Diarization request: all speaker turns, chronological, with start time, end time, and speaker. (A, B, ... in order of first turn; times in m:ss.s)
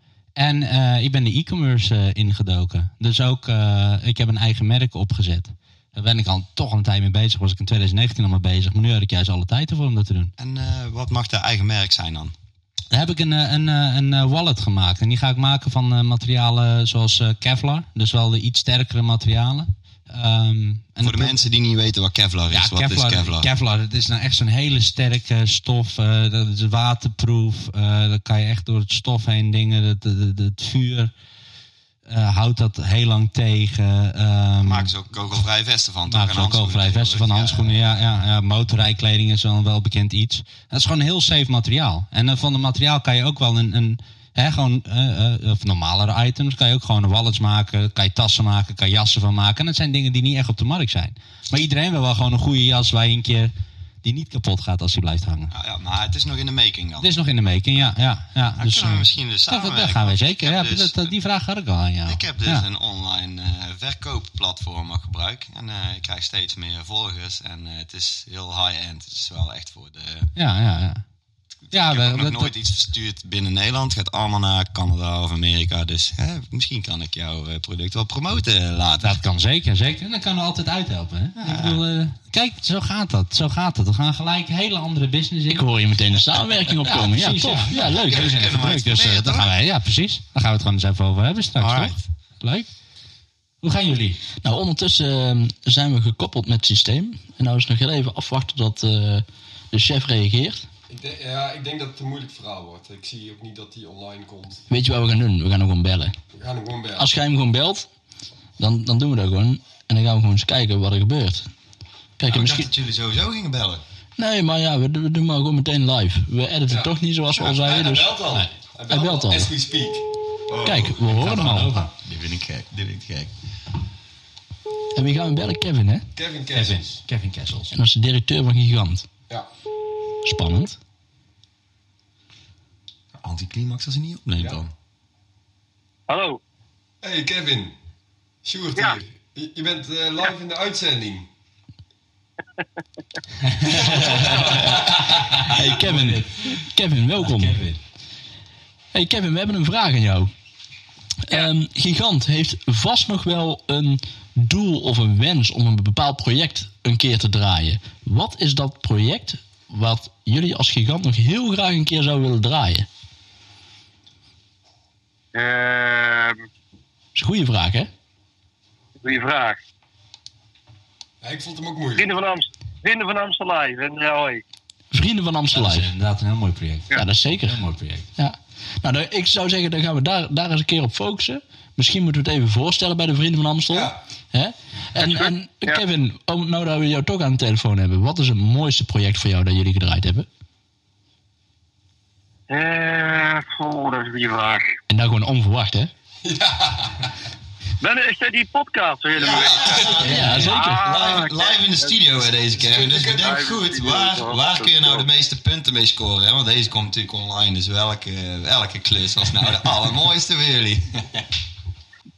0:00.4-0:10.3 A
0:10.4-0:12.4 B
0:12.9-0:21.4 A
0:21.0-0:23.5 B
0:22.5-0:31.1 A
0:32.0-0:34.9 A
0:34.6-0:37.8 B
0:36.1-0:53.5 A
0:54.0-0:55.5 A
0:55.5-0:57.1 B
0:57.0-1:02.6 A
0:58.6-1:01.1 B
1:02.1-1:10.3 B
1:10.4-1:11.0 A
1:11.7-1:19.2 B
1:11.7-1:12.5 A
1:19.0-1:25.7 A
1:21.4-1:21.8 B
1:25.5-1:28.5 C
1:26.8-1:32.7 A
1:27.7-1:29.5 B
1:31.6-1:32.0 B
1:33.6-1:34.2 A
1:34.4-1:40.6 C
1:40.9-1:44.6 D
1:44.7-1:46.2 C
1:46.3-1:47.1 D
1:47.0-1:47.9 C
1:48.6-1:51.5 C
1:52.2-1:52.7 C
1:52.3-1:53.8 B
1:54.2-1:58.2 C
1:56.7-2:00.0 D
1:58.9-1:59.5 C
2:00.5-2:03.3 B
2:00.6-2:01.7 C
2:01.1-2:01.9 A
2:05.0-2:06.1 C
2:06.2-2:06.9 D
2:06.5-2:07.7 A
2:07.7-2:09.1 C
2:10.2-2:10.8 C
2:13.2-2:14.7 B
2:16.1-2:16.4 E
2:17.0-2:17.8 D
2:18.4-2:21.3 D
2:23.5-2:26.7 A
2:23.7-2:27.6 C
2:23.7-2:24.6 D
2:23.9-2:25.1 B
2:27.2-2:27.8 A
2:28.9-2:30.3 C
2:31.2-2:42.9 C
2:45.3-2:46.4 E
2:47.2-2:47.9 C
2:49.0-2:49.6 E
2:51.2-2:52.1 D
2:52.0-2:54.4 E
2:54.9-2:55.9 C
2:55.5-2:58.1 A
2:56.9-2:57.6 C
2:58.2-3:10.3 C
3:03.7-3:04.0 D
3:05.0-3:05.8 E
3:12.5-3:14.8 E
3:14.9-3:15.9 C
3:16.2-3:17.1 D
3:17.8-3:21.9 E
3:19.1-3:31.3 B
3:19.3-3:20.1 D
3:20.0-3:20.9 C
3:20.0-3:20.5 A
3:22.6-3:23.4 D
3:23.0-3:25.0 E